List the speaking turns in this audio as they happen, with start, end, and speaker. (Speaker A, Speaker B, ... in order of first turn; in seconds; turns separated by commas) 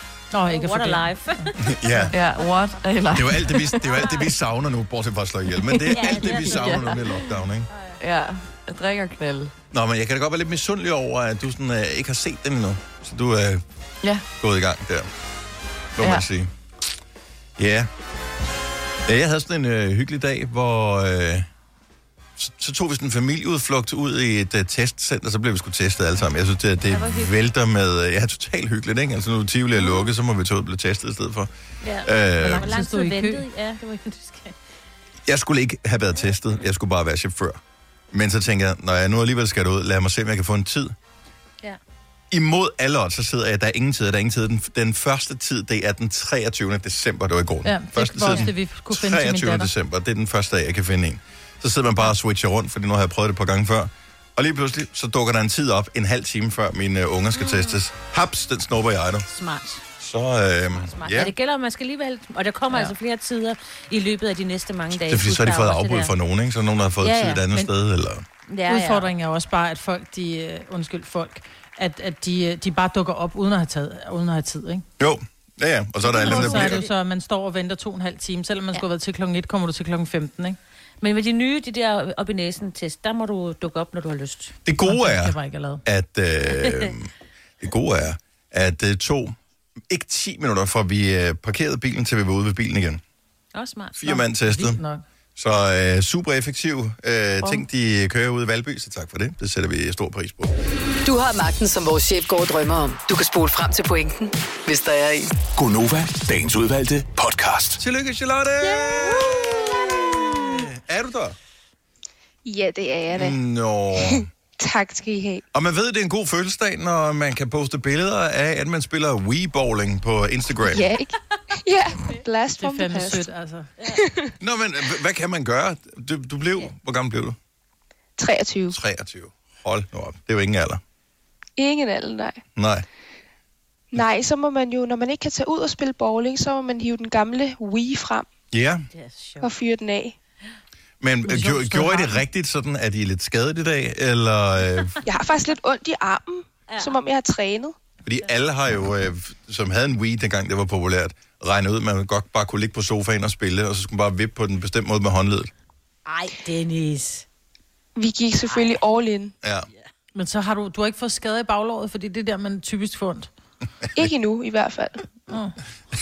Speaker A: 0.3-2.0, Speaker B: 0.5-2.1, Speaker C: 1.6-2.1, Speaker D: 2.1-3.7, Speaker C: 3.1-7.7, Speaker B: 3.9-4.3, Speaker D: 5.7-7.0, Speaker B: 5.9-7.2, Speaker B: 7.7-8.0, Speaker D: 8.0-9.5, Speaker C: 9.7-13.6, Speaker C: 14.4-15.1, Speaker C: 16.0-16.5, Speaker D: 16.0-16.3, Speaker C: 17.6-17.9, Speaker C: 19.1-21.5, Speaker C: 22.4-31.5, Speaker B: 26.9-27.3, Speaker B: 29.8-30.1, Speaker B: 31.8-34.6, Speaker C: 32.0-32.7, Speaker A: 32.4-33.4, Speaker C: 35.3-37.6, Speaker C: 38.1-40.9, Speaker C: 42.3-59.3, Speaker A: 47.6-49.7, Speaker B: 57.3-57.8, Speaker B: 59.3-59.8, Speaker C: 60.0-61.3, Speaker B: 60.7-66.2, Speaker C: 65.1-68.2, Speaker B: 67.0-67.5, Speaker B: 68.5-69.1, Speaker A: 68.7-74.9, Speaker C: 75.0-76.9, Speaker A: 76.0-80.6, Speaker B: 76.2-76.7, Speaker B: 81.0-84.5, Speaker C: 84.7-87.1, Speaker A: 84.8-85.8, Speaker B: 86.6-86.9, Speaker C: 87.6-89.4, Speaker C: 89.9-93.0, Speaker B: 93.5-94.0, Speaker C: 94.0-94.8, Speaker A: 94.1-95.0, Speaker C: 95.4-100.5, Speaker E: 101.0-105.3, Speaker F: 105.6-107.8, Speaker C: 107.8-111.4, Speaker G: 112.5-113.4, Speaker C: 113.1-114.3, Speaker G: 114.1-115.5, Speaker C: 115.5-120.9, Speaker G: 120.7-123.3, Speaker A: 122.6-123.7, Speaker G: 123.9-124.3, Speaker C: 124.4-127.4, Speaker G: 128.2-128.8, Speaker C: 128.7-130.8, Speaker G: 131.6-132.4, Speaker C: 132.6-132.8, Speaker G: 133.9-138.3, Speaker C: 138.5-138.9, Speaker B: 138.9-139.5, Speaker G: 139.4-140.2, Speaker C: 141.0-145.0, Speaker A: 141.3-142.2, Speaker G: 145.1-147.8, Speaker B: 146.7-147.0, Speaker C: 148.1-155.5, Speaker B: 156.1-157.2, Speaker G: 158.0-159.3, Speaker B: 158.5-158.8, Speaker A: 160.2-163.3, Speaker G: 163.9-165.0, Speaker A: 165.3-165.6